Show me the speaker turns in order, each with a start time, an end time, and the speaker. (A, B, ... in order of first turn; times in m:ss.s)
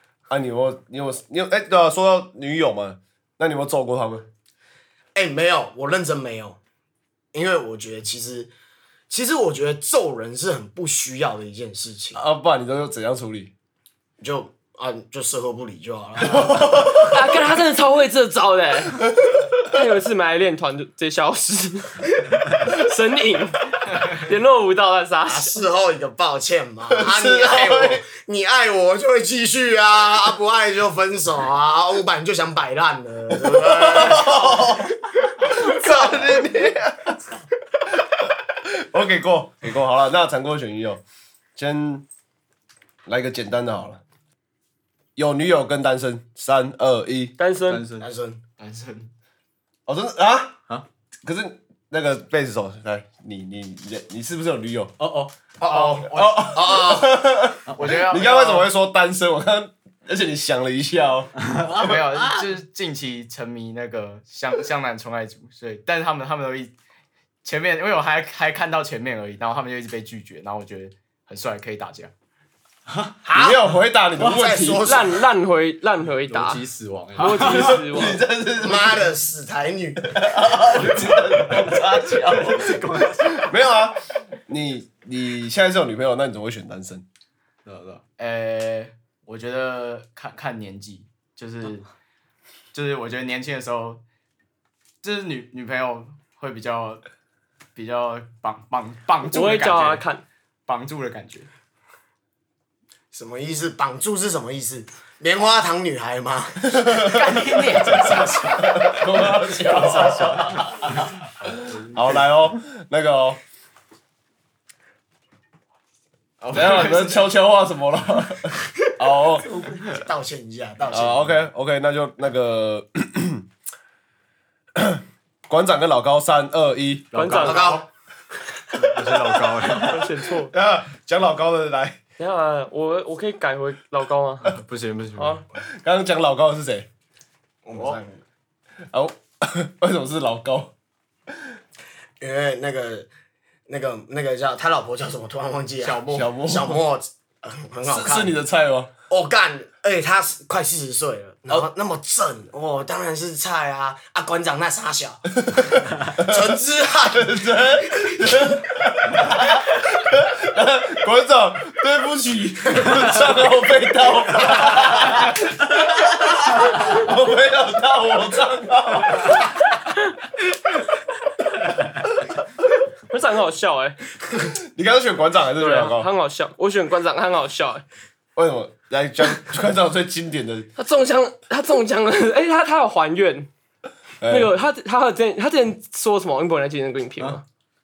0:00.3-0:04.3 A
0:05.1-0:06.6 B
0:07.3-0:08.5 B
0:09.1-0:12.2 B
0:12.1-0:13.5 A
0:14.2-0:17.1 B
0:16.2-0:17.2 A
0:17.0-0:19.0 C
0:19.2-0:19.5 A
0:19.7-0:25.6 C
0:25.2-0:34.9 B
0:26.9-0:28.0 A
0:33.3-0:37.2 A
0:35.5-0:36.2 B
0:38.0-0:41.0 A
0:41.6-0:42.0 A
0:43.0-0:44.0 A
0:45.2-0:47.3 A
0:47.4-0:47.8 C
0:47.7-0:48.1 D
0:48.0-0:48.4 B
0:48.6-0:49.1 E
0:49.9-0:50.6 A
0:51.2-0:54.9 A
0:55.0-0:55.3 D
0:55.6-0:57.2 B
0:55.6-0:56.5 E
0:56.1-1:01.9 A
0:57.7-0:58.7 E
1:01.4-1:01.9 D
1:01.7-1:06.7 E
1:07.4-1:12.1 E
1:13.2-1:13.6 B
1:13.3-1:14.9 A
1:14.2-1:15.2 B
1:14.8-1:16.6 C
1:16.3-1:17.8 D
1:17.2-1:18.2 C
1:17.5-1:19.1 A
1:18.6-1:20.1 B
1:20.0-1:27.0 A
1:22.2-1:23.5 D
1:27.6-1:28.0 D
1:28.2-1:31.9 E
1:32.7-1:34.0 E
1:35.0-1:37.0 E
1:37.7-1:40.0 E
1:39.2-1:40.2 C
1:40.6-1:41.5 E
1:43.1-1:47.4 B
1:46.8-1:47.2 A
1:47.0-1:50.6 E
1:47.8-1:53.4 A
1:56.4-1:57.2 E
1:56.5-1:59.6 A
1:59.5-2:01.3 B
2:00.9-2:03.4 A
2:04.7-2:07.1 A
2:07.1-2:07.8 D
2:07.1-2:07.8 C
2:07.3-2:07.8 B
2:08.7-2:10.1 D
2:09.8-2:10.5 C
2:10.5-2:12.0 A
2:12.2-2:14.5 C
2:14.4-2:15.4 D
2:15.2-2:15.4 C
2:15.7-2:16.9 A
2:17.6-2:18.2 B
2:18.9-2:20.7 A
2:22.2-2:23.1 B
2:23.7-2:28.3 B
2:25.8-2:26.3 E
2:26.1-2:26.8 A
2:27.8-2:28.9 A
2:29.1-2:37.4 B
2:35.4-2:49.5 A
2:53.1-2:54.0 C
2:54.6-2:56.1 A
2:55.6-2:57.8 C
2:58.4-3:00.7 A
3:00.8-3:03.5 C
3:04.2-3:04.5 A
3:04.2-3:07.4 C